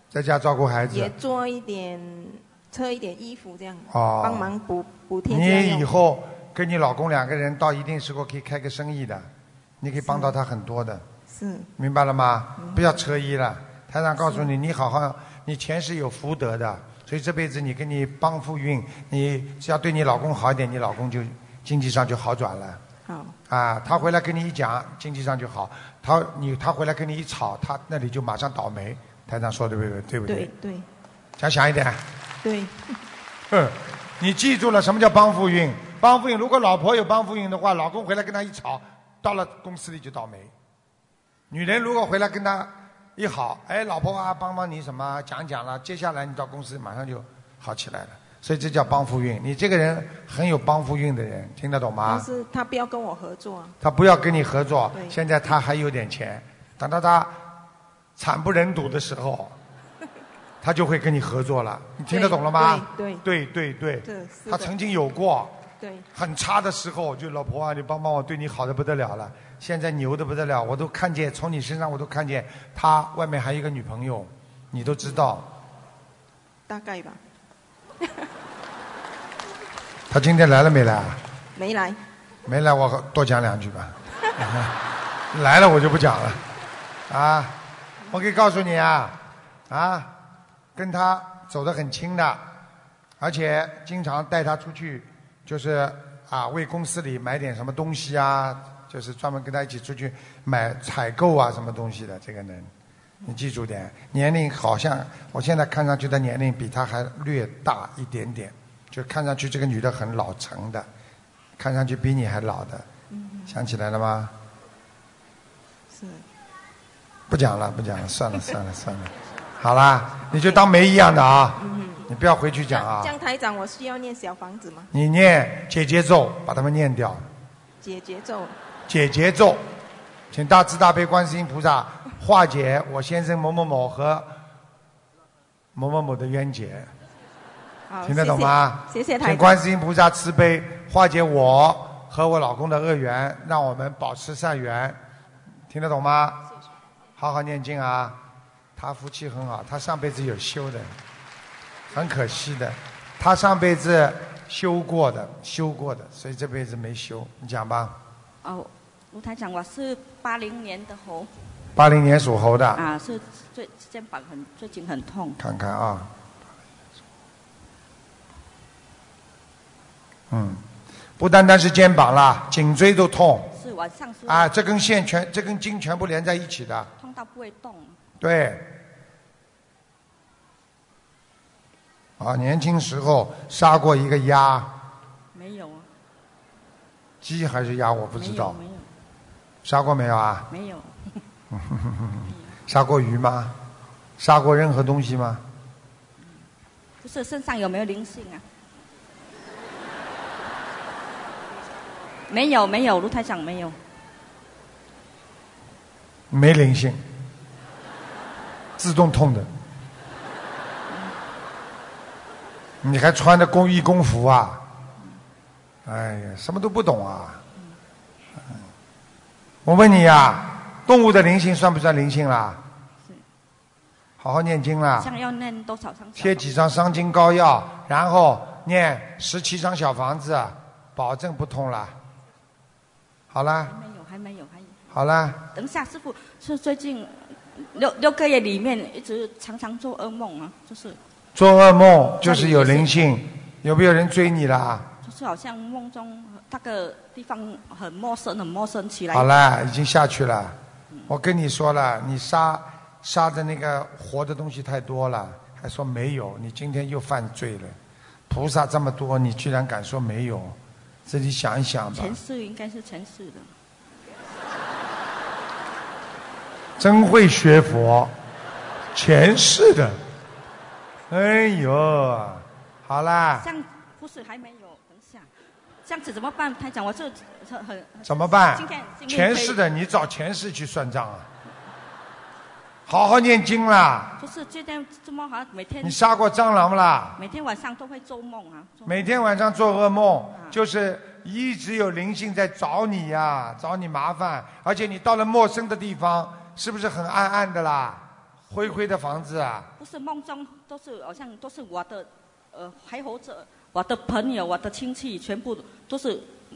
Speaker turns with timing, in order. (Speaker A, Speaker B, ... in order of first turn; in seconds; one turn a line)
Speaker A: 0.1-1.1
Speaker B: 0.9-5.9
Speaker A: 3.9-4.5
Speaker A: 5.3-9.3
Speaker A: 9.8-11.1
Speaker B: 10.0-10.3
Speaker B: 11.3-11.7
Speaker A: 11.8-22.8
Speaker B: 12.6-13.0
Speaker B: 14.2-14.5
Speaker B: 23.1-23.4
Speaker A: 23.5-30.5
Speaker B: 30.3-30.9
Speaker A: 31.4-32.0
Speaker B: 32.4-32.8
Speaker A: 33.5-40.5
Speaker A: 41.5-52.2
Speaker B: 52.0-53.8
Speaker A: 53.8-57.4
Speaker A: 58.2-59.5
Speaker A: 60.6-65.6
Speaker B: 62.1-63.2
Speaker B: 64.0-64.7
Speaker B: 65.8-66.1
Speaker A: 66.1-75.5
Speaker B: 76.7-77.2
Speaker A: 80.1-81.2
Speaker B: 81.5-82.0
Speaker A: 82.5-84.7
Speaker A: 85.3-86.4
Speaker A: 87.1-87.6
Speaker A: 88.1-90.1
Speaker A: 90.7-92.5
Speaker A: 93.2-102.7
Speaker A: 103.3-110.9
Speaker A: 111.6-112.9
Speaker B: 113.1-113.5
Speaker A: 113.5-114.3
Speaker B: 115.9-116.2
Speaker A: 117.3-123.1
Speaker B: 121.6-122.0
Speaker B: 122.7-124.9
Speaker A: 124.9-127.3
Speaker B: 127.8-128.6
Speaker A: 128.9-129.6
Speaker A: 130.3-134.3
Speaker A: 135.7-136.9
Speaker B: 137.9-139.6
Speaker A: 138.0-145.0
Speaker A: 145.7-146.4
Speaker A: 147.2-148.2
Speaker A: 148.8-150.9
Speaker A: 151.9-158.0
Speaker C: 158.4-161.3
Speaker A: 161.7-162.8
Speaker C: 162.8-165.4
Speaker A: 165.4-166.1
Speaker A: 170.3-170.6
Speaker A: 171.2-173.5
Speaker C: 173.6-174.5
Speaker A: 174.3-176.9
Speaker C: 177.0-178.0
Speaker A: 178.2-178.7
Speaker A: 182.2-184.7
Speaker C: 185.3-185.9
Speaker A: 187.2-188.6
Speaker C: 188.2-188.9
Speaker A: 189.6-190.5
Speaker C: 190.5-191.2
Speaker A: 191.5-193.6
Speaker C: 192.3-192.6
Speaker A: 194.2-195.4
Speaker C: 196.2-196.5
Speaker C: 197.0-198.4
Speaker C: 202.3-203.8
Speaker A: 206.3-207.0
Speaker A: 208.8-209.5
Speaker C: 210.9-211.2
Speaker A: 212.8-214.7
Speaker A: 215.8-217.4
Speaker A: 219.7-222.6
Speaker A: 224.2-225.1
Speaker C: 225.0-226.5
Speaker A: 226.2-232.0
Speaker A: 233.3-233.7
Speaker C: 233.7-234.8
Speaker A: 234.9-235.4
Speaker C: 235.5-241.0
Speaker A: 241.3-244.9
Speaker C: 242.2-242.9
Speaker C: 245.0-249.3
Speaker A: 249.1-257.8
Speaker A: 258.3-262.2
Speaker C: 261.9-263.5
Speaker A: 266.8-268.1
Speaker A: 268.9-270.0
Speaker A: 271.1-273.4
Speaker C: 273.4-275.3
Speaker C: 275.9-279.6
Speaker A: 278.1-281.3
Speaker A: 282.9-284.1
Speaker C: 284.2-286.0
Speaker A: 285.8-287.2
Speaker C: 287.2-289.1
Speaker A: 288.9-299.7
Speaker C: 299.8-306.4